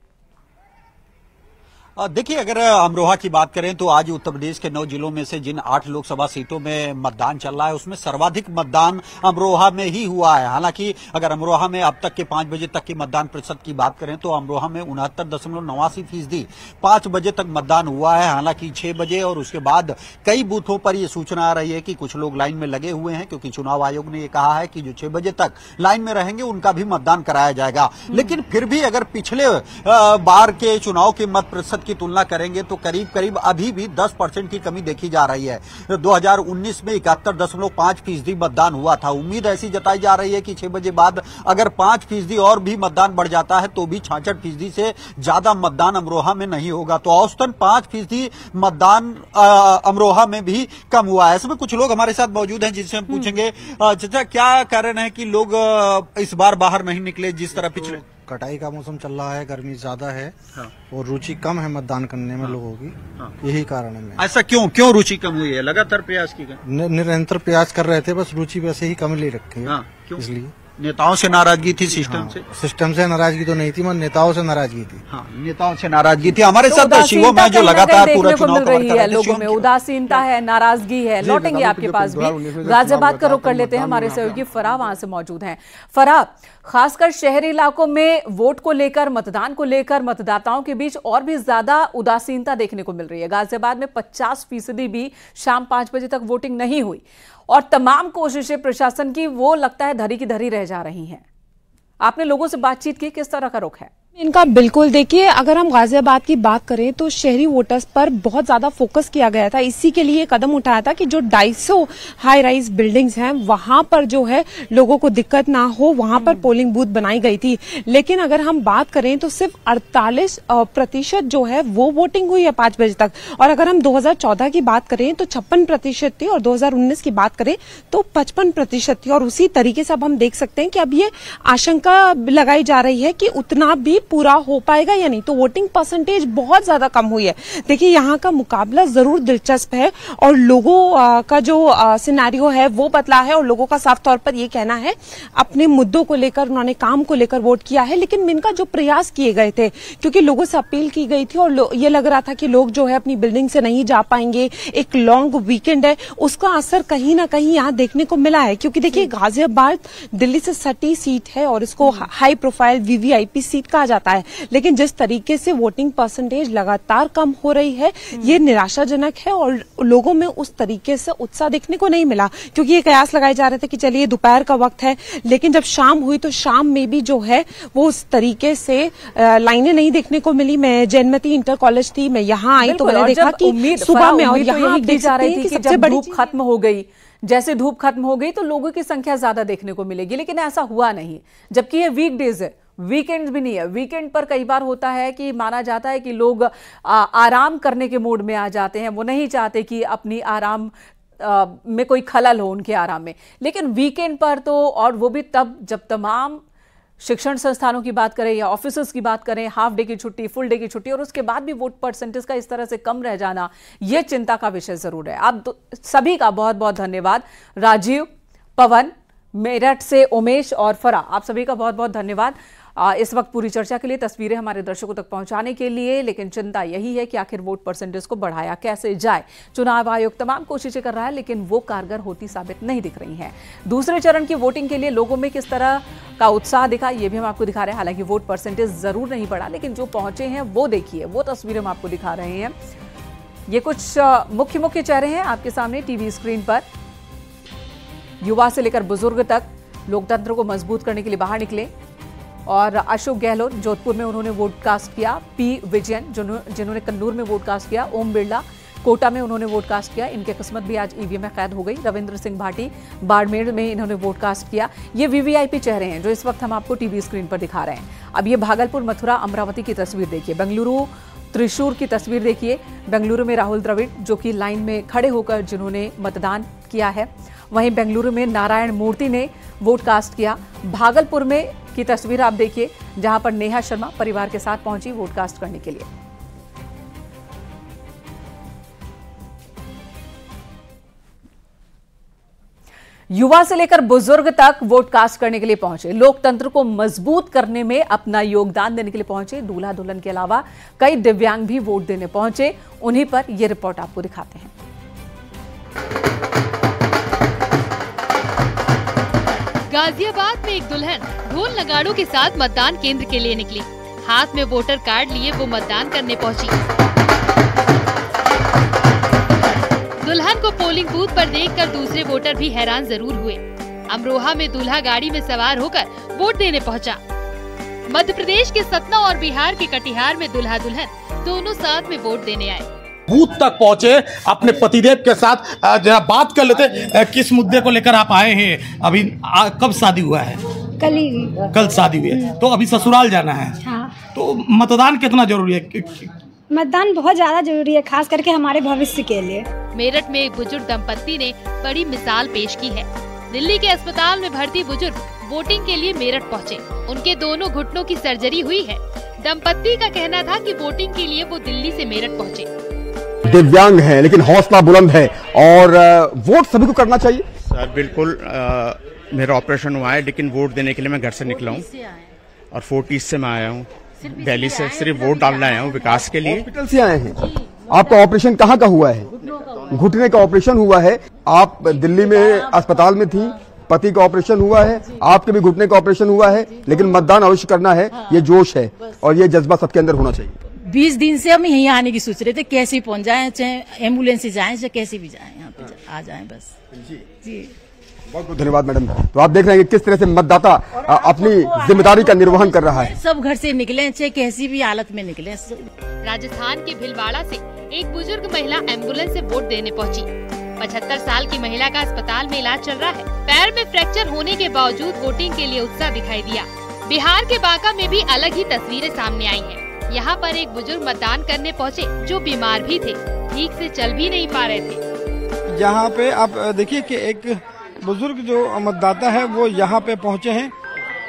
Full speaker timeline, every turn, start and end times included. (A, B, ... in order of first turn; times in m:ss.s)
0:02.0-0:58.0 A
0:57.8-1:00.4 B
1:00.9-1:04.2 B
1:04.2-1:06.6 A
1:06.6-1:10.5 B
1:09.6-1:12.4 A
1:12.0-1:15.0 B
1:15.1-1:19.6 A
1:16.7-1:41.2 C
1:21.2-1:24.4 D
1:42.0-1:43.9 C
1:44.2-3:06.2 E
3:02.6-3:26.4 C
3:27.0-4:02.5 C
4:03.5-4:06.6 C
4:08.2-4:11.7 C
4:12.5-4:45.9 C
4:53.1-5:04.5 C
5:09.7-5:16.6 F
5:20.0-5:27.0 F
5:27.9-5:32.6 F
5:33.1-5:40.4 G
5:40.8-5:41.5 H
5:41.5-5:43.6 G
5:43.6-5:44.0 H
5:44.1-5:46.1 G
5:46.5-5:49.4 H
5:49.7-6:02.5 F
6:03.2-6:07.2 D
6:07.5-6:11.7 I
6:11.3-6:12.1 J
6:12.5-6:16.4 I
6:14.0-6:16.1 J
6:16.2-6:19.1 D
6:19.7-6:30.3 D
6:21.7-6:22.6 J
6:27.9-6:28.2 J
6:30.6-6:36.6 J
6:36.7-6:37.0 D
6:37.2-6:37.5 J
6:38.1-6:42.9 D
6:40.8-6:45.6 J
6:46.0-7:04.8 F
7:05.5-7:10.5 K